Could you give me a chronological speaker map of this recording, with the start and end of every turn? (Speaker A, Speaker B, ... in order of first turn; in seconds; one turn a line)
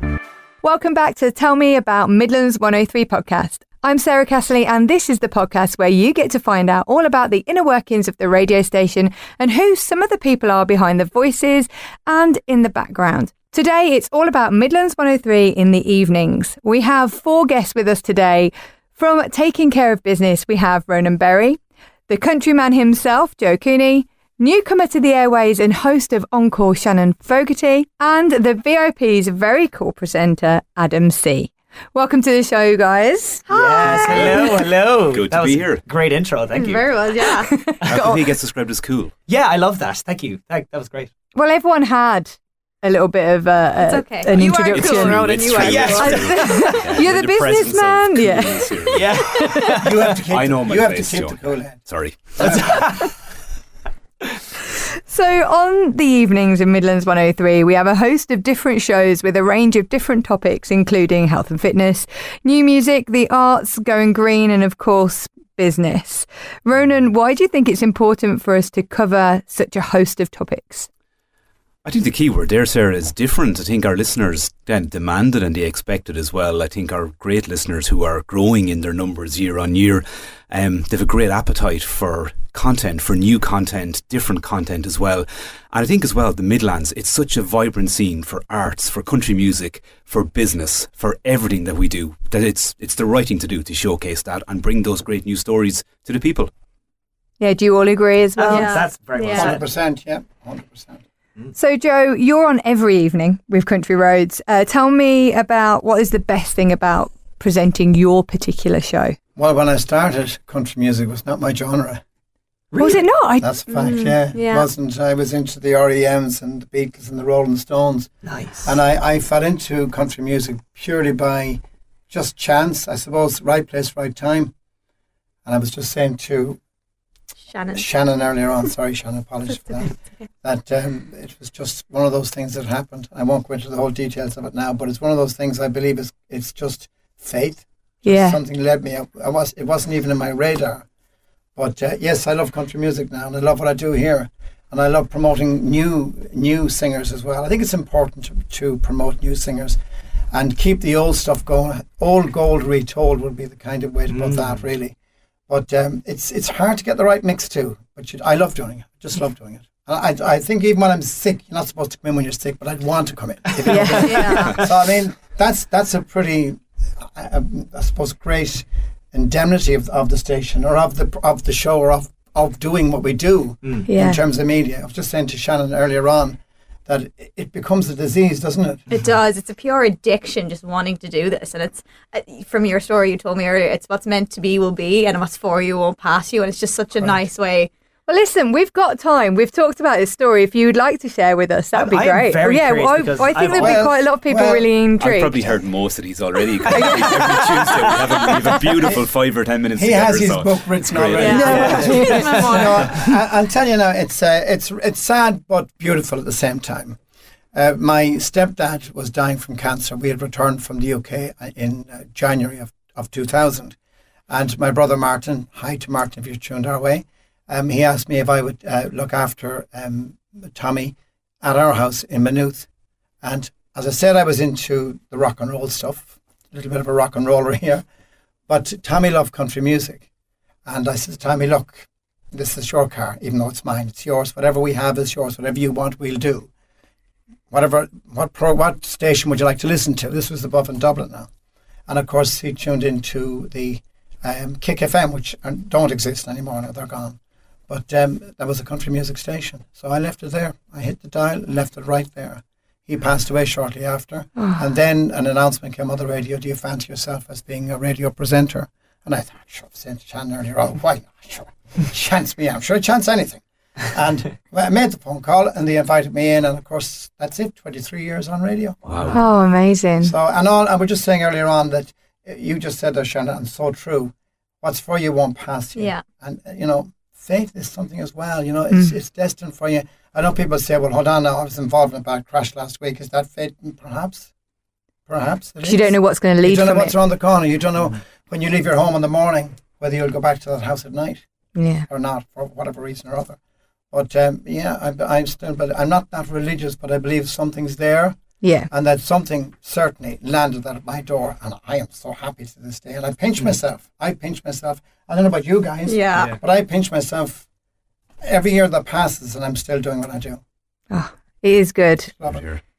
Speaker A: 0.6-33.5
Speaker B: 33.5-34.4
Speaker C: 33.5-37.0
Speaker D: 33.8-35.8
Speaker B: 36.5-37.8
Speaker A: 37.2-38.2
Speaker D: 37.9-39.1
Speaker C: 39.3-41.1
Speaker A: 41.4-45.3
Speaker B: 43.8-46.7
Speaker D: 44.7-49.3
Speaker C: 45.5-47.0
Speaker A: 46.0-49.8
Speaker C: 48.9-50.2
Speaker E: 49.8-53.0
Speaker D: 50.1-52.8
Speaker C: 52.4-53.1
Speaker A: 55.1-70.9
Speaker D: 71.8-96.5
Speaker A: 97.4-98.8
Speaker C: 98.4-99.6
Speaker B: 98.5-99.5
Speaker E: 99.3-101.0
Speaker A: 101.5-109.2
Speaker E: 109.4-112.0
Speaker C: 112.7-113.0
Speaker A: 112.8-113.5
Speaker E: 113.4-124.5
Speaker B: 113.7-114.7
Speaker C: 118.2-118.8
Speaker E: 125.5-126.6
Speaker B: 127.5-127.8
Speaker E: 127.7-140.8
Speaker A: 138.1-138.4
Speaker E: 141.6-149.8
Speaker E: 150.3-154.9
Speaker C: 154.1-154.5
Speaker E: 155.5-178.9
Speaker C: 163.6-163.8
Speaker A: 163.7-164.6
Speaker B: 164.0-164.6
Speaker C: 164.4-164.7
Speaker A: 173.9-174.2
Speaker B: 178.9-187.7
Speaker E: 187.0-187.2
Speaker A: 188.1-195.4
Speaker C: 191.7-193.9
Speaker E: 193.5-194.7
Speaker D: 195.0-202.2
Speaker A: 196.7-197.3
Speaker C: 196.8-198.3
Speaker E: 199.8-207.0
Speaker B: 201.1-203.1
Speaker C: 201.3-202.9
Speaker A: 201.4-202.3
Speaker E: 207.5-213.8
Speaker E: 214.3-222.7
Speaker E: 223.2-227.8
Speaker E: 228.5-230.1
Speaker E: 230.7-236.5
Speaker E: 237.5-241.3
Speaker E: 241.9-269.1
Speaker D: 268.9-269.2
Speaker A: 269.1-270.1
Speaker E: 270.0-284.3
Speaker B: 275.8-276.0
Speaker E: 285.1-291.2
Speaker A: 285.6-286.9
Speaker A: 291.6-291.9
Speaker E: 291.9-293.4
Speaker E: 293.9-298.2
Speaker A: 298.4-298.7
Speaker E: 298.7-307.4
Speaker B: 305.9-306.3
Speaker E: 308.2-310.4
Speaker A: 310.9-312.1
Speaker D: 312.3-312.6